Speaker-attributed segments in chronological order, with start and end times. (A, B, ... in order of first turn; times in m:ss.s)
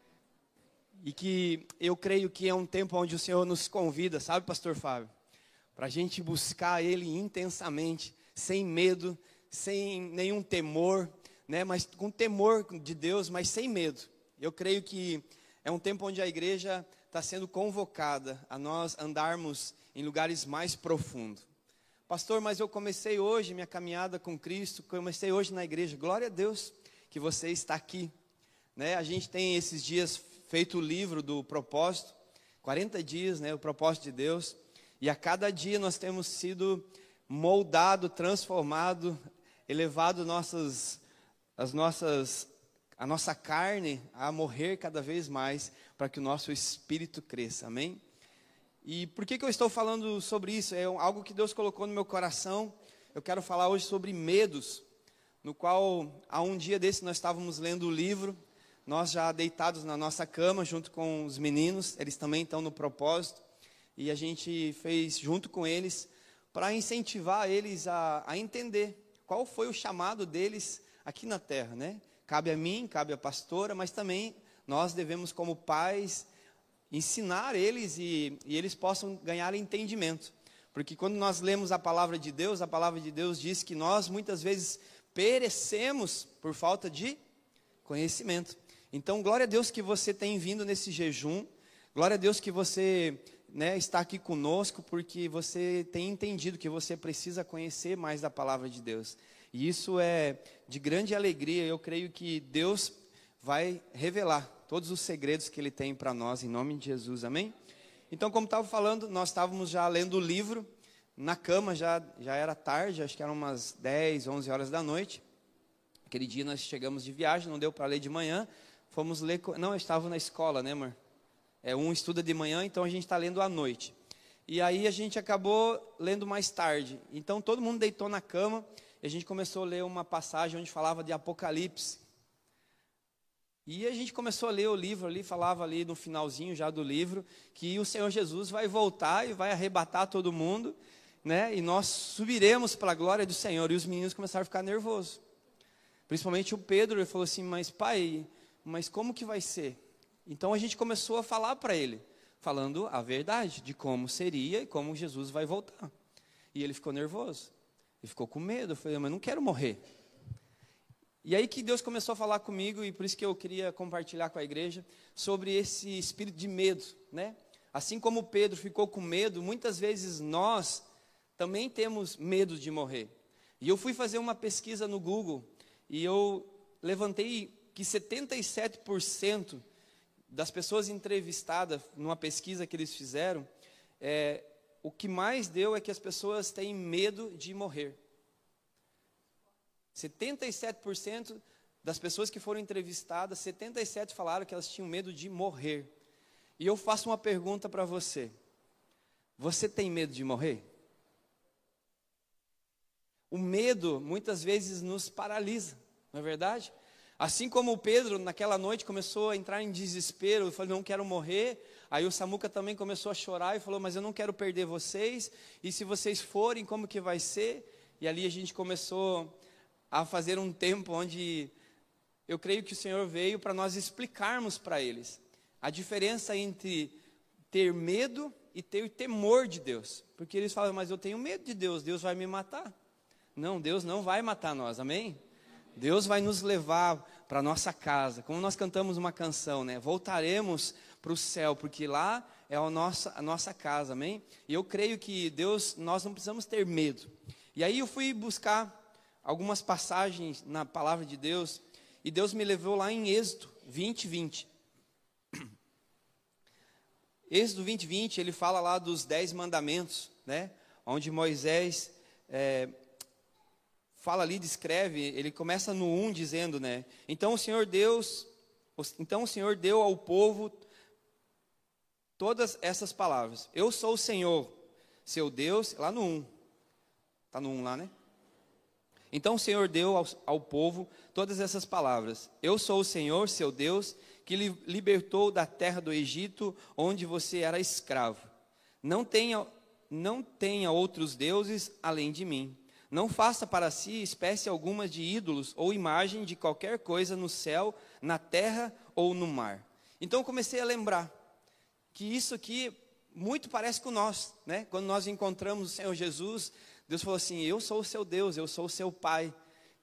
0:01.0-0:05.1 A
0:05.8-0:21.5 A
0:22.1-0:28.1 A
0:28.8-0:39.2 A
0:39.7-0:41.0 A
0:41.6-0:42.5 A
0:43.0-0:48.0 A
0:48.8-0:54.8 A
0:55.4-1:03.4 A
1:04.0-1:16.3 A
1:16.9-1:27.2 A
1:27.8-1:47.5 A
1:48.1-1:55.2 A
1:56.1-2:01.0 A
2:01.6-2:03.9 A
2:04.5-2:12.0 A
2:13.6-2:25.2 A
2:26.1-2:35.9 A
2:36.5-2:39.8 A
2:41.2-2:50.8 A
2:51.4-2:59.6 A
3:00.3-3:03.5 A
3:04.0-3:08.0 A
3:09.9-3:15.9 A
3:16.6-3:18.3 A
3:19.4-3:20.6 A
3:23.3-3:39.4 A
3:39.9-3:41.5 A
3:42.3-3:47.0 A
3:47.5-3:52.7 A
3:53.4-3:55.2 A
3:55.8-4:14.5 A
4:17.3-4:22.7 A
4:24.0-4:30.6 A
4:32.2-4:36.3 A
4:37.3-4:37.9 A
4:39.1-4:48.2 A
4:48.8-5:01.1 A
5:01.9-5:09.3 A